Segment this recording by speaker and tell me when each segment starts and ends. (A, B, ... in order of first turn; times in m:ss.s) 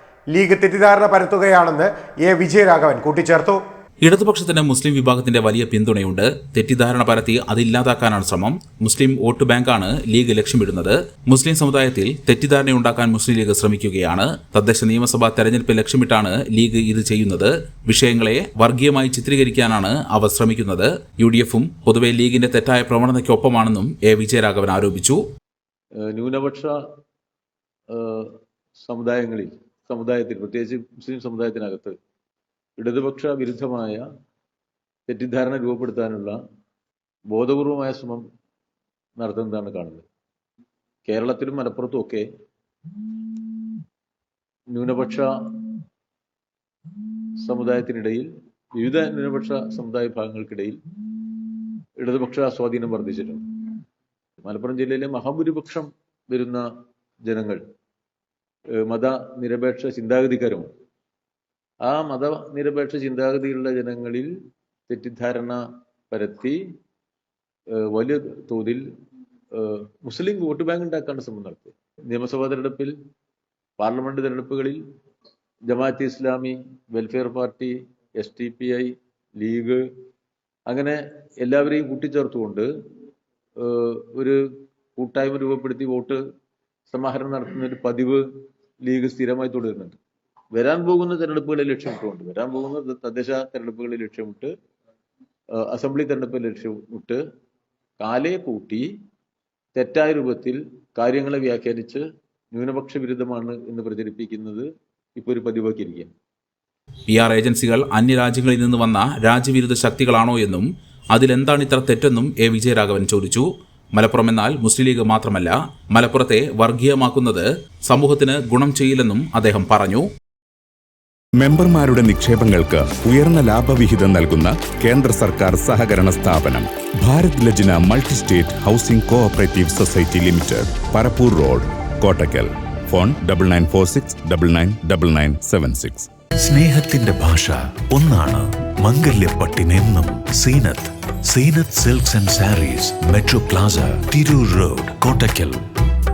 0:00.3-0:03.6 A
0:04.0-0:25.2 B
0:26.0-0:26.8 C
0:27.9-0:32.0 C
0:32.8-0:34.0 C
0:35.1-0:36.4 C
0:37.3-0:38.2 C
0:39.2-0:40.0 C
0:41.0-0:42.2 C
0:44.7-0:45.7 C
0:47.4-0:50.8 C
0:52.0-0:53.5 C
0:54.4-0:56.6 C
0:57.2-0:57.6 C
0:58.8-1:00.7 C
1:01.8-1:04.3 C
1:04.9-1:06.6 C
1:07.7-1:08.8 C
1:09.5-1:12.9 C
1:13.8-1:14.8 C
1:15.7-1:19.8 C
1:20.7-1:22.7 C
1:23.6-1:24.4 C
1:25.0-1:26.2 C
1:26.9-1:28.2 C
1:28.8-1:30.0 C
1:30.5-1:34.5 C
1:35.6-1:37.2 C
1:38.0-1:38.9 C
1:39.7-1:46.1 C
1:47.1-2:00.1 B
2:01.4-2:16.1 D
2:16.4-2:25.6 E